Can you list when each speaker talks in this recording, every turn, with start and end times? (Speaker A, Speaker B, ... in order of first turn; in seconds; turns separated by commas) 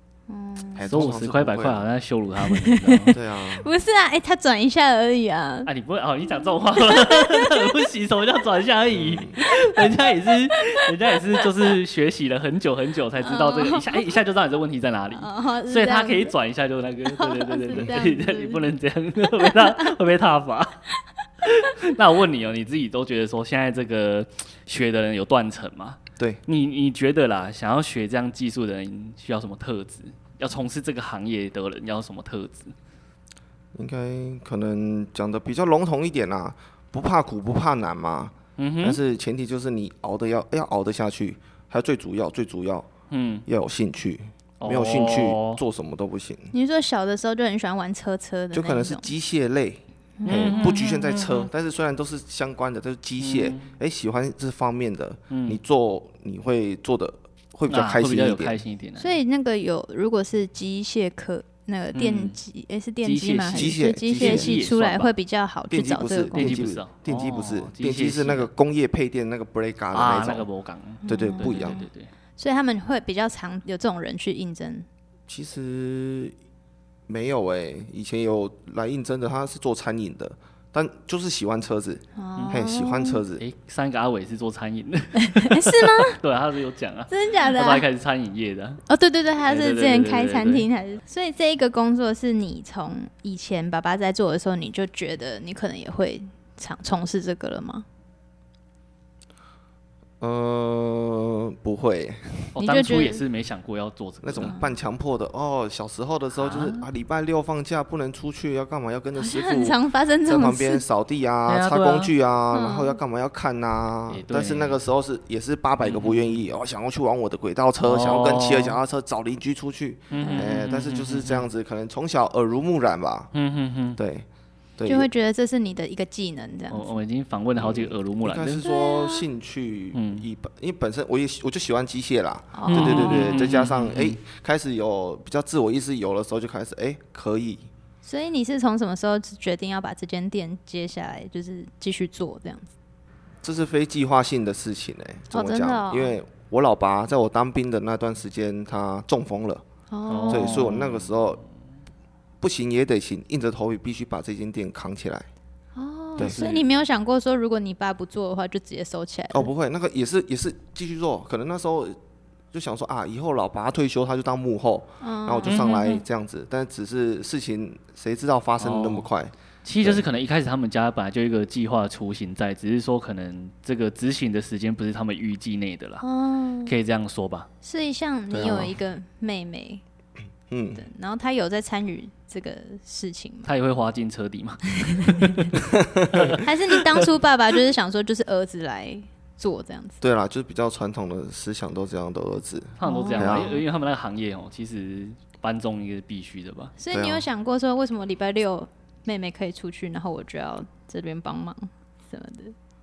Speaker A: 0.3-0.8, Speaker B: 0.7-1.9, Speaker C: 0.8-3.1, Speaker A: 2.4-5.7, Speaker B: 3.1-3.7, Speaker C: 5.7-20.8, Speaker A: 6.8-7.7, Speaker B: 8.9-9.4, Speaker A: 9.4-10.1, Speaker A: 10.8-11.4, Speaker A: 13.2-14.1, Speaker A: 15.1-16.3, Speaker A: 17.1-18.6, Speaker A: 19.3-19.9, Speaker C: 21.4-32.7, Speaker B: 33.7-42.9, Speaker C: 38.6-39.0, Speaker C: 43.1-43.4, Speaker B: 43.5-46.5, Speaker C: 44.6-45.6, Speaker A: 46.5-49.0, Speaker B: 48.5-58.6, Speaker A: 50.2-51.0, Speaker C: 50.2-51.5, Speaker C: 53.2-53.7, Speaker C: 55.3-55.6, Speaker C: 57.7-59.1, Speaker A: 59.0-66.5, Speaker C: 61.9-62.4, Speaker C: 63.0-65.1, Speaker B: 63.5-64.5, Speaker B: 65.7-70.5, Speaker C: 66.3-68.5, Speaker C: 69.9-72.1, Speaker B: 71.0-71.8, Speaker A: 71.0-74.9, Speaker B: 75.3-76.3, Speaker B: 77.1-83.4, Speaker A: 82.2-83.2, Speaker C: 83.4-88.8, Speaker A: 85.2-86.2, Speaker A: 87.1-87.8, Speaker A: 88.9-97.8, Speaker C: 89.4-90.7, Speaker B: 100.2-102.5, Speaker C: 102.5-104.5, Speaker A: 102.5-103.2, Speaker B: 104.2-109.8, Speaker A: 104.4-104.7, Speaker C: 106.3-106.9, Speaker A: 109.1-110.8, Speaker B: 110.3-123.3, Speaker C: 111.5-112.1, Speaker A: 112.5-113.0, Speaker C: 114.1-114.8, Speaker C: 115.8-116.3, Speaker C: 117.8-118.8, Speaker C: 120.1-121.5, Speaker A: 120.1-120.5, Speaker C: 123.3-124.0, Speaker B: 124.0-124.3, Speaker B: 124.8-125.1, Speaker A: 124.8-126.8, Speaker C: 126.7-128.6, Speaker B: 127.5-137.7, Speaker A: 128.6-129.3, Speaker C: 129.9-130.2, Speaker A: 132.5-133.4, Speaker C: 132.7-134.2, Speaker A: 138.0-142.7, Speaker B: 143.4-149.6, Speaker A: 145.3-146.2, Speaker A: 149.9-150.7, Speaker C: 150.1-151.3, Speaker B: 150.3-151.4, Speaker B: 152.4-155.3, Speaker A: 155.7-159.5, Speaker C: 156.2-156.7, Speaker B: 159.3-162.0, Speaker B: 162.5-170.0, Speaker A: 165.0-166.0, Speaker C: 165.4-165.8, Speaker C: 168.6-169.1, Speaker C: 169.6-176.0, Speaker A: 176.0-176.7, Speaker C: 176.7-177.5, Speaker A: 177.6-179.8, Speaker B: 178.3-178.7, Speaker B: 180.5-180.8, Speaker A: 180.8-183.5, Speaker C: 183.4-185.5, Speaker A: 184.8-185.5, Speaker B: 185.6-186.4, Speaker C: 186.1-187.1, Speaker A: 186.4-190.0, Speaker B: 190.0-193.6, Speaker C: 192.8-196.7, Speaker A: 192.8-193.6, Speaker A: 196.8-202.5, Speaker B: 196.9-197.2